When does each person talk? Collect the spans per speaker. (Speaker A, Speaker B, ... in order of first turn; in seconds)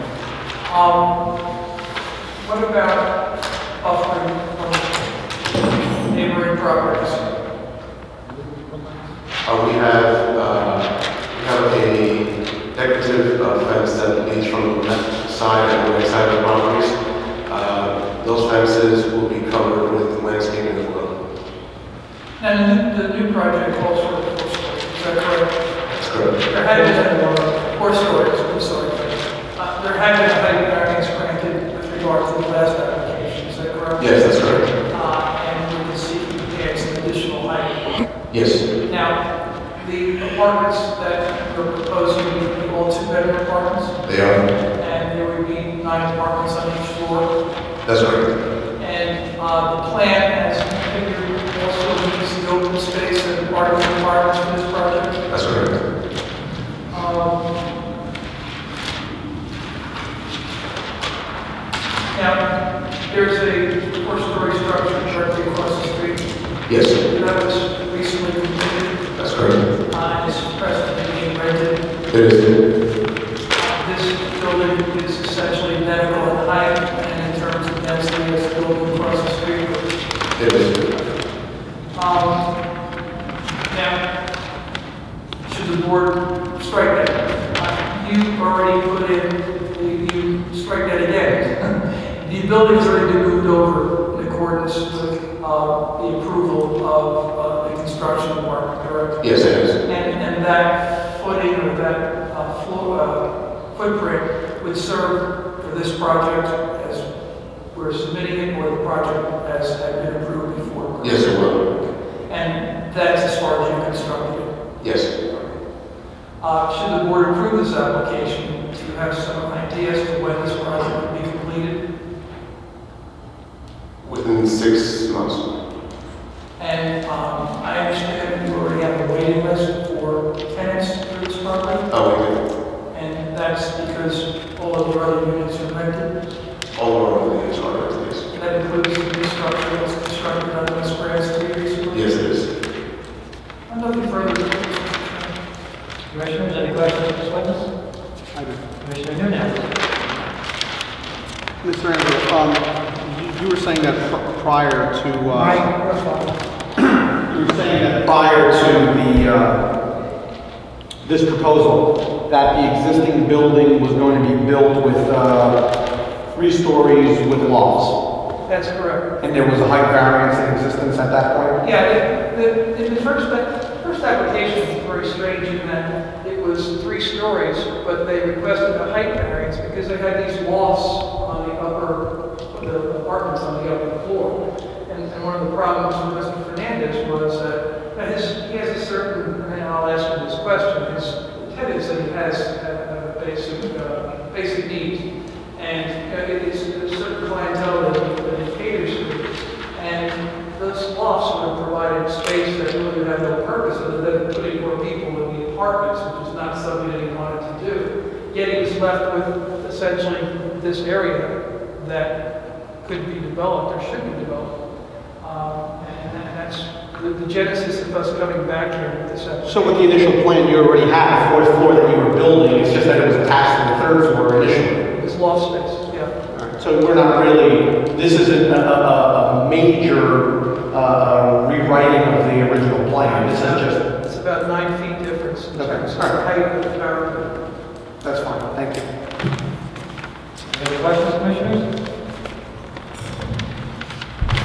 Speaker A: 0.7-1.1, 2.4-3.1, 3.8-5.1, 6.0-7.2, 22.4-25.5, 26.4-34.2, 34.8-37.8, 38.9-39.2, 39.8-44.0, 44.8-47.3, 48.8-55.2, 56.9-57.5, 62.1-62.5, 63.1-66.3, 67.0-69.1, 69.9-71.9, 73.6-79.9, 81.9-82.5, 83.7-84.0, 85.5-107.1, 107.7-111.6, 112.3-114.5, 116.4-121.8, 126.6-131.9, 132.9-136.1, 138.3-142.4, 143.7-145.4, 168.5-169.1, 171.6-212.2, 212.8-214.6, 215.2-219.9, 224.9-226.1, 233.1-237.3
Speaker B: 9.4-17.0, 17.5-21.1, 25.9-26.3, 34.0-34.7, 38.3-38.6, 44.1-44.4, 47.9-48.2, 55.3-55.7, 66.7-67.0, 69.2-69.6, 72.1-72.6, 80.4-80.8, 99.2-99.8, 111.0-111.6, 114.8-115.1, 124.0-125.4, 131.9-132.4, 136.8-138.2, 141.9-142.5
Speaker C: 146.1-147.7, 148.8-149.7, 155.3-156.4, 240.5-241.7
Speaker D: 148.3-148.6, 151.6-155.7, 156.8-159.6, 161.0-165.6, 166.3-168.0, 169.2-171.6, 219.4-224.8, 226.3-233.8, 235.6-236.2, 238.0-238.9